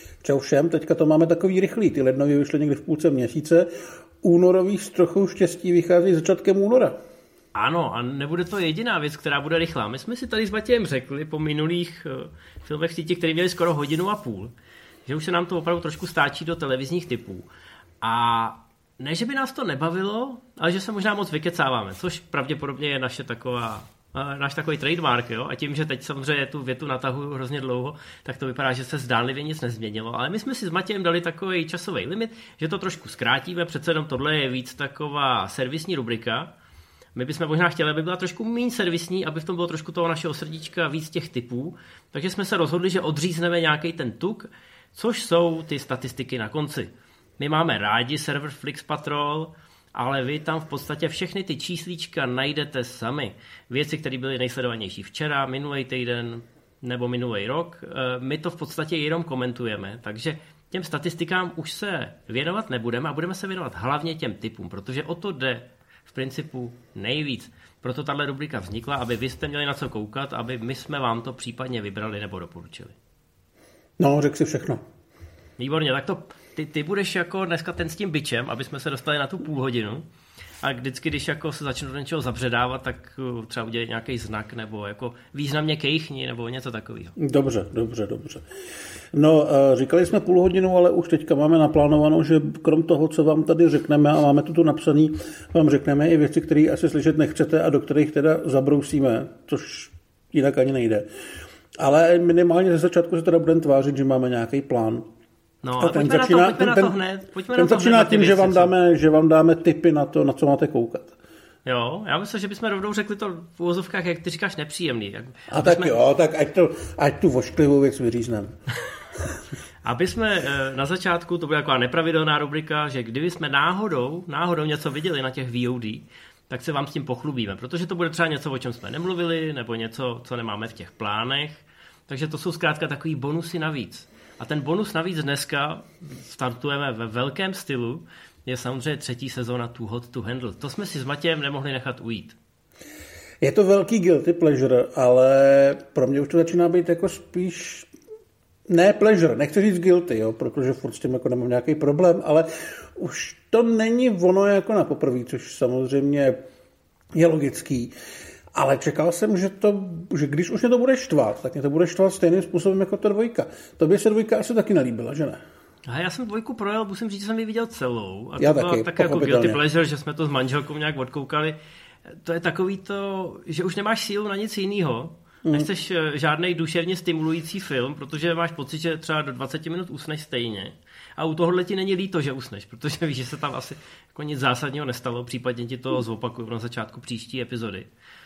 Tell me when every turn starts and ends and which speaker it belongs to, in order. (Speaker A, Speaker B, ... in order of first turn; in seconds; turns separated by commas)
Speaker A: 0.2-3.7, Speaker A: 4.2-7.0, Speaker B: 7.5-14.5, Speaker B: 15.1-17.5, Speaker B: 18.0-36.5, Speaker B: 37.1-73.0, Speaker A: 74.0-74.8, Speaker B: 75.6-80.0, Speaker B: 80.6-87.2, Speaker A: 87.2-88.5, Speaker A: 89.1-101.1, Speaker A: 101.8-105.1, Speaker B: 105.6-108.7, Speaker A: 105.8-107.0, Speaker A: 107.6-111.2, Speaker B: 111.7-116.0, Speaker A: 115.5-118.5, Speaker B: 119.8-142.4, Speaker A: 143.4-147.9, Speaker A: 148.7-156.4, Speaker A: 157.1-157.9, Speaker A: 158.5-165.4, Speaker B: 165.9-171.6, Speaker A: 168.4-169.6, Speaker B: 172.1-187.9